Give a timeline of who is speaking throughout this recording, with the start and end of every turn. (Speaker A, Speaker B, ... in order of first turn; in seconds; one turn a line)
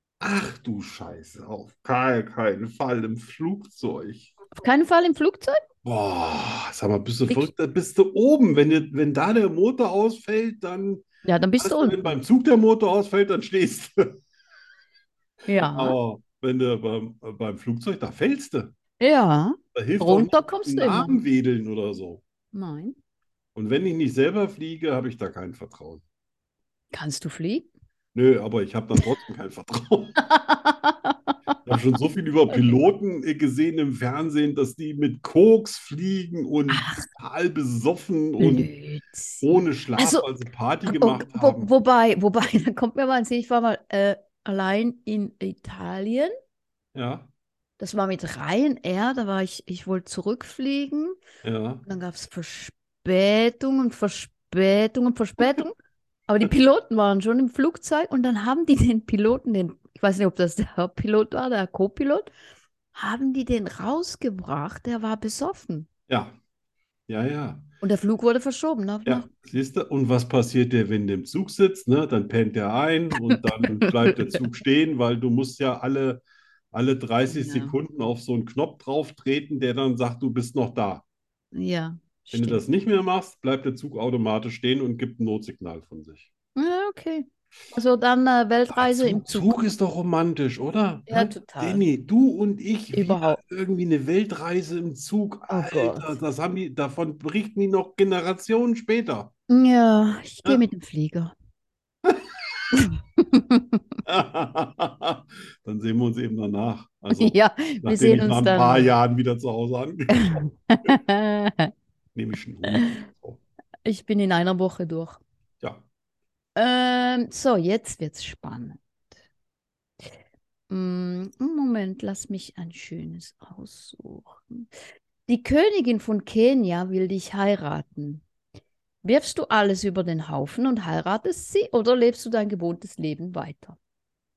Speaker A: 0.2-4.3
Speaker B: 4.5-5.6
Speaker A: 5.8-11.1
Speaker B: 11.2-12.2
Speaker A: 11.6-14.2
Speaker B: 15.5-16.0
Speaker A: 15.7-18.7
Speaker B: 19.0-21.2
Speaker A: 19.7-22.2
Speaker B: 22.5-23.0
Speaker A: 23.6-26.0
Speaker B: 26.9-27.7
Speaker A: 28.1-30.2
Speaker B: 30.3-31.3
Speaker A: 31.6-38.7
Speaker B: 36.7-37.1
Speaker B: 38.4-40.3
Speaker A: 39.4-41.7
Speaker B: 40.9-46.3
Speaker A: 46.9-47.3
Speaker B: 47.8-51.2
Speaker A: 51.4-51.8
Speaker B: 51.9-55.8
Speaker B: 56.3-62.3
Speaker B: 63.0-65.9
Speaker A: 66.1-66.4
Speaker A: 67.1-67.7
Speaker B: 67.8-69.3
Speaker A: 69.0-81.0
Speaker B: 73.3-74.4
Speaker B: 77.3-77.8
Speaker B: 81.5-82.6
Speaker A: 82.3-86.3
Speaker B: 86.6-89.6
Speaker A: 88.7-99.3
Speaker B: 91.1-91.8
Speaker B: 92.9-93.4
Speaker B: 95.5-96.2
Speaker B: 99.5-101.3
Speaker B: 102.7-103.8
Speaker A: 104.0-110.3
Speaker B: 107.1-109.0
Speaker B: 110.2-111.7
Speaker A: 112.2-113.4
Speaker B: 113.8-115.2
Speaker B: 116.6-118.8
Speaker B: 120.7-124.7
Speaker B: 125.3-128.2
Speaker B: 129.0-133.8